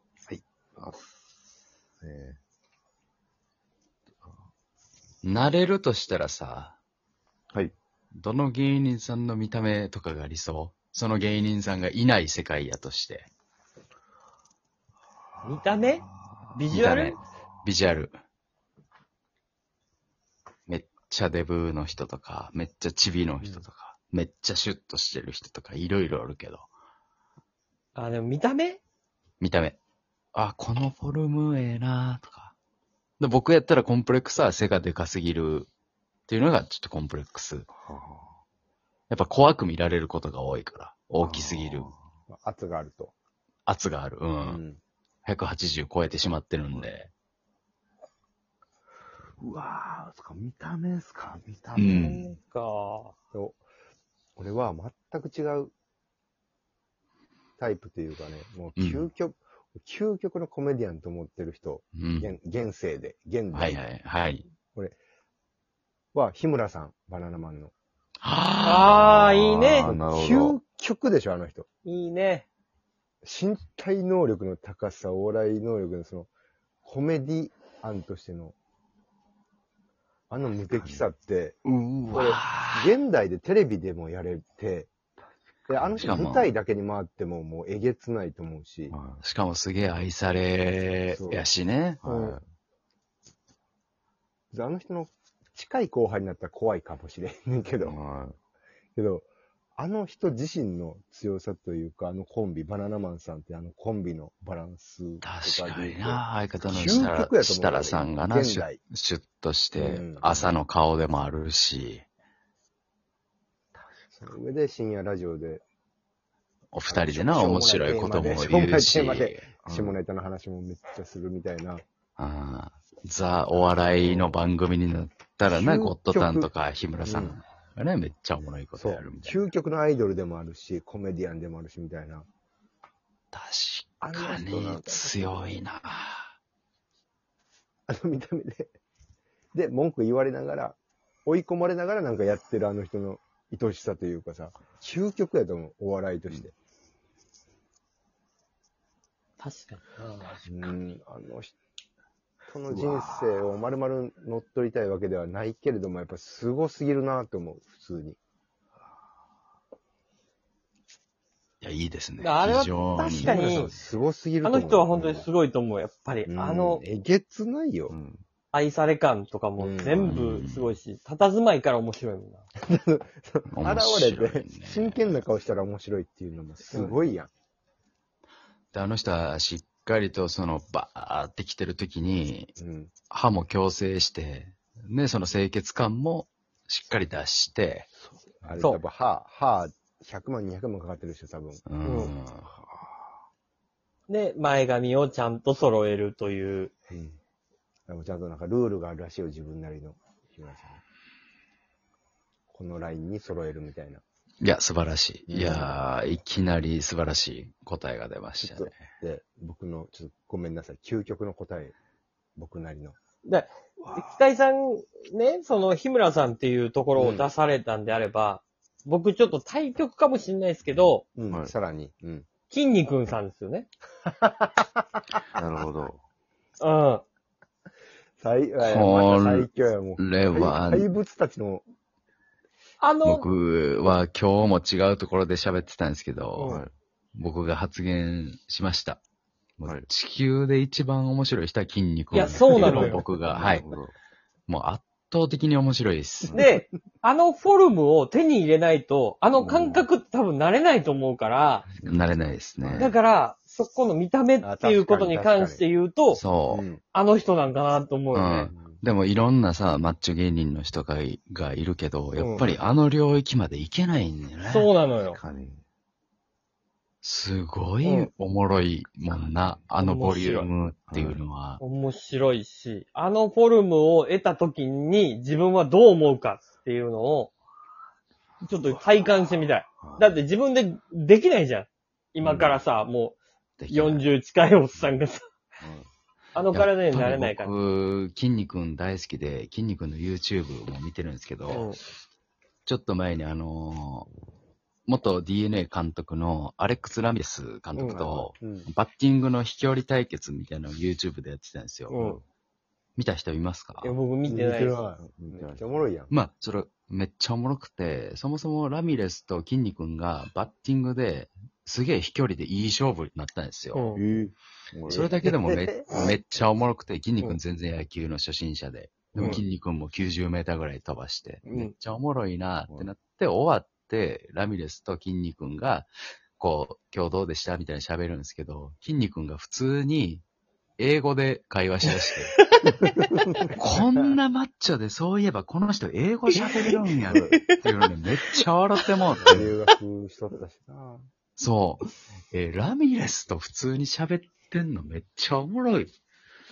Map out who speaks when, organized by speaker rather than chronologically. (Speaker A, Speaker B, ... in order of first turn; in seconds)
Speaker A: 2.0-2.4, 15.4-16.5, 37.8-38.4, 41.2-42.0, 49.4-52.0, 69.7-70.6, 80.7-81.0, 88.9-89.2, 92.0-92.4, 97.8-98.4, 110.2-110.5, 119.6-120.0, 150.2-150.7, 152.7-153.2, 167.9-168.2, 225.3-226.0, 236.4-236.7, 242.1-243.9, 246.3-246.5, 249.4-249.8, 251.8-252.7, 265.1-265.6, 269.0-269.6, 270.9-271.2, 279.8-280.1, 285.6-285.9, 301.9-302.2, 305.0-305.8, 313.9-315.1, 319.1-319.4
Speaker B: 5.2-6.8, 8.1-13.3, 16.7-18.1, 20.7-26.7, 29.4-29.8, 30.3-32.5, 33.2-35.7, 36.3-37.7, 39.1-41.9, 43.6-44.6, 45.2-47.1, 51.7-52.2, 58.8-59.1, 61.9-62.3, 63.5-64.4, 68.2-69.6, 82.0-82.9, 85.8-86.5, 89.2-92.0, 105.2-112.0, 116.7-119.5, 122.2-129.4, 133.3-136.3, 161.6-163.4, 170.0-170.8, 173.5-175.2, 178.7-182.5, 183.1-187.9, 191.7-192.5, 204.4-208.8, 228.6-230.9, 233.0-236.6, 237.1-239.0, 239.6-243.7, 244.5-246.5, 251.8-252.9, 256.1-256.6, 258.1-264.7, 267.0-271.6, 282.2-282.6, 283.6-284.0, 286.5-291.7, 292.6-294.1, 294.9-302.0, 303.0-304.0, 306.1-313.9, 314.9-330.2, 330.8-332.3, 333.6-339.5, 341.4-345.9
Speaker C: 15.4-17.2, 27.9-28.8, 51.9-53.1, 68.6-69.9, 71.8-72.5, 92.0-92.3, 149.4-150.2, 162.2-163.7, 164.4-166.8, 168.5-172.4, 176.7-177.0, 191.8-192.1, 194.1-196.7, 213.2-221.0, 222.5-223.7, 226.6-227.0, 232.8-233.2, 236.4-236.6, 242.1-243.0, 246.3-251.7, 252.8-256.2, 256.9-258.5, 262.2-262.5, 264.4-265.2, 267.8-268.1, 269.8-270.5, 271.6-277.3, 278.4-283.2, 283.7-285.2, 286.3-287.5, 291.5-291.8, 301.9-302.2, 303.8-304.8, 313.7-314.0, 321.5-321.7, 332.4-333.1, 336.4-337.5
Speaker D: 42.3-43.1, 44.4-44.8, 53.3-53.6, 54.4-55.7, 57.6-63.8, 66.1-67.7, 69.8-71.7, 73.2-76.3, 76.8-78.5, 80.3-84.9, 85.7-88.9, 91.1-91.4, 94.5-98.0, 99.0-108.8, 109.8-110.2, 114.1-115.6, 116.9-121.8, 123.5-124.4, 125.5-126.5, 127.0-127.4, 128.7-132.2, 134.0-135.6, 137.9-138.7, 139.5-146.5, 150.4-151.5, 152.5-158.2, 163.0-165.3, 166.2-167.9, 169.6-170.1, 172.6-177.3, 182.6-182.9, 188.4-191.6, 196.9-197.2, 197.9-200.8, 202.5-204.0, 205.3-205.8, 208.4-211.7, 212.3-213.0, 216.9-217.3, 221.1-222.3, 228.2-231.6, 254.4-255.6, 256.5-256.8, 258.5-258.8, 297.8-298.7, 304.2-306.1, 315.2-315.9, 333.1-334.1, 339.2-341.1